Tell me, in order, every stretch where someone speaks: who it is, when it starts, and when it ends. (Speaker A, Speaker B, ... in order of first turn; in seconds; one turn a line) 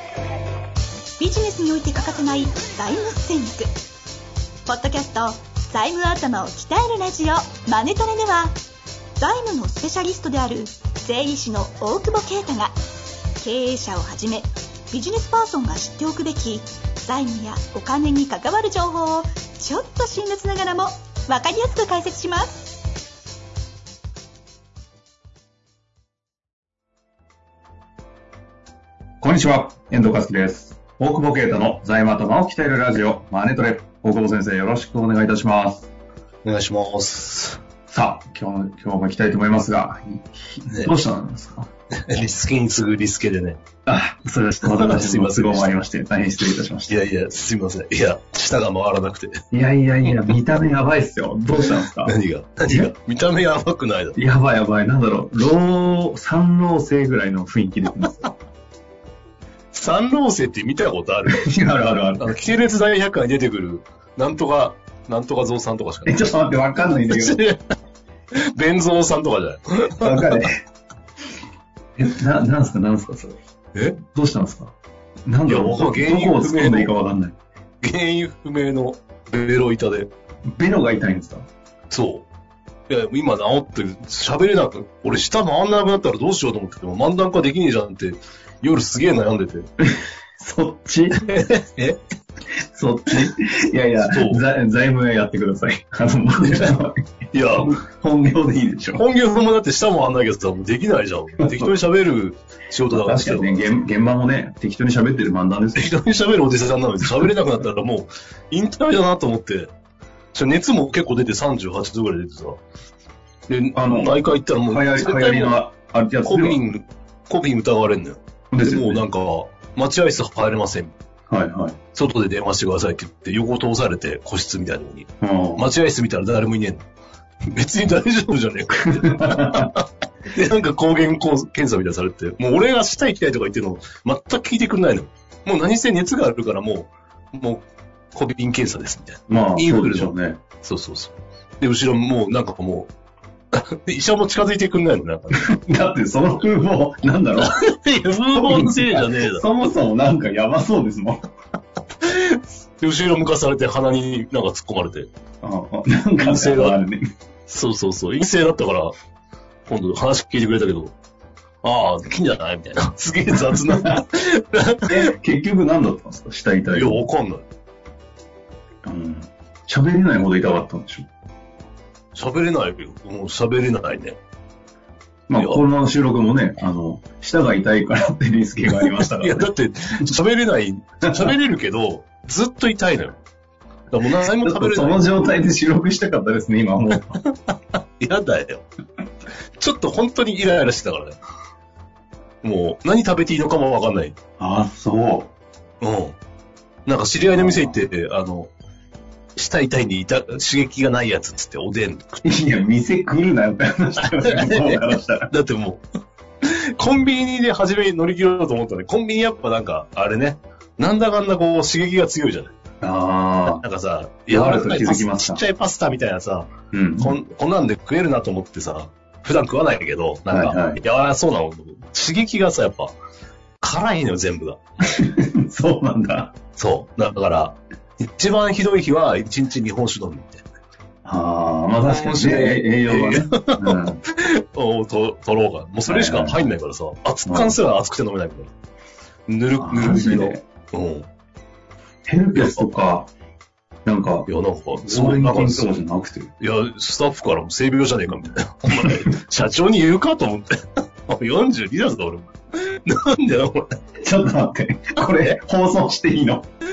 Speaker A: 1.2-3.7
Speaker A: 4.6-8.5
Speaker A: 9.2-12.7
Speaker A: 13.4-22.8
Speaker B: 29.2-35.9
Speaker C: 36.4-37.6
Speaker B: 37.9-41.7
Speaker C: 42.0-43.6
Speaker B: 43.9-47.0
Speaker C: 44.6-45.7
Speaker C: 46.9-49.4
Speaker B: 49.5-52.1
Speaker C: 50.0-50.4
Speaker C: 52.0-54.2
Speaker B: 52.7-52.9
Speaker B: 54.1-58.3
Speaker C: 59.7-61.5
Speaker B: 61.2-62.4
Speaker C: 62.2-66.2
Speaker B: 66.0-67.4
Speaker C: 66.9-67.6
Speaker C: 68.3-70.5
Speaker B: 70.0-70.6
Speaker B: 72.0-73.3
Speaker B: 74.0-74.7
Speaker B: 75.2-77.3
Speaker C: 75.5-76.9
Speaker C: 77.8-80.1
Speaker B: 80.6-81.5
Speaker C: 81.9-82.2
Speaker C: 82.9-89.7
Speaker B: 89.8-91.2
Speaker C: 91.2-92.0
Speaker B: 92.5-99.0
Speaker C: 94.0-94.4
Speaker C: 96.4-96.8
Speaker C: 97.3-97.7
Speaker C: 99.0-103.7
Speaker B: 101.4-101.7
Speaker B: 102.9-106.0
Speaker C: 105.7-109.7
Speaker C: 110.3-112.6
Speaker C: 113.5-115.6
Speaker B: 113.7-116.7
Speaker C: 116.2-120.9
Speaker B: 118.5-119.0
Speaker B: 121.3-121.8
Speaker C: 121.9-126.8
Speaker B: 125.2-125.7
Speaker C: 127.5-142.9
Speaker B: 128.9-129.7
Speaker B: 139.3-140.4
Speaker C: 143.5-145.5
Speaker B: 145.3-147.5
Speaker C: 147.4-149.4
Speaker B: 148.3-151.2
Speaker C: 152.0-155.1
Speaker B: 155.4-157.0
Speaker C: 156.2-156.8
Speaker C: 157.5-158.9
Speaker C: 159.7-160.9
Speaker C: 161.6-165.1
Speaker B: 163.4-164.0
Speaker B: 164.9-167.1
Speaker C: 166.7-167.4
Speaker B: 168.8-171.1
Speaker C: 172.1-174.2
Speaker B: 175.3-179.5
Speaker C: 175.3-175.6
Speaker C: 178.7-183.2
Speaker C: 183.9-185.5
Speaker B: 184.4-187.2
Speaker C: 187.5-188.7
Speaker C: 189.6-191.2
Speaker C: 192.4-194.2
Speaker B: 194.4-195.3
Speaker C: 195.8-196.2
Speaker C: 196.8-198.5
Speaker B: 197.3-197.8
Speaker C: 199.3-202.2
Speaker B: 202.2-205.3
Speaker C: 204.0-205.8
Speaker C: 206.4-212.5
Speaker B: 212.8-213.6
Speaker C: 213.5-222.9
Speaker B: 214.3-215.4
Speaker B: 216.7-217.2
Speaker B: 220.3-220.8
Speaker C: 223.6-225.0
Speaker B: 224.8-226.3
Speaker C: 226.6-230.4
Speaker B: 231.0-234.0
Speaker C: 231.8-238.5
Speaker B: 235.8-236.4
Speaker B: 237.2-237.6
Speaker C: 239.3-241.1
Speaker B: 239.6-240.4
Speaker B: 242.1-243.1
Speaker C: 242.3-242.7
Speaker B: 243.8-244.3
Speaker C: 244.3-245.7
Speaker B: 244.8-246.3
Speaker C: 246.4-253.8
Speaker B: 254.0-256.5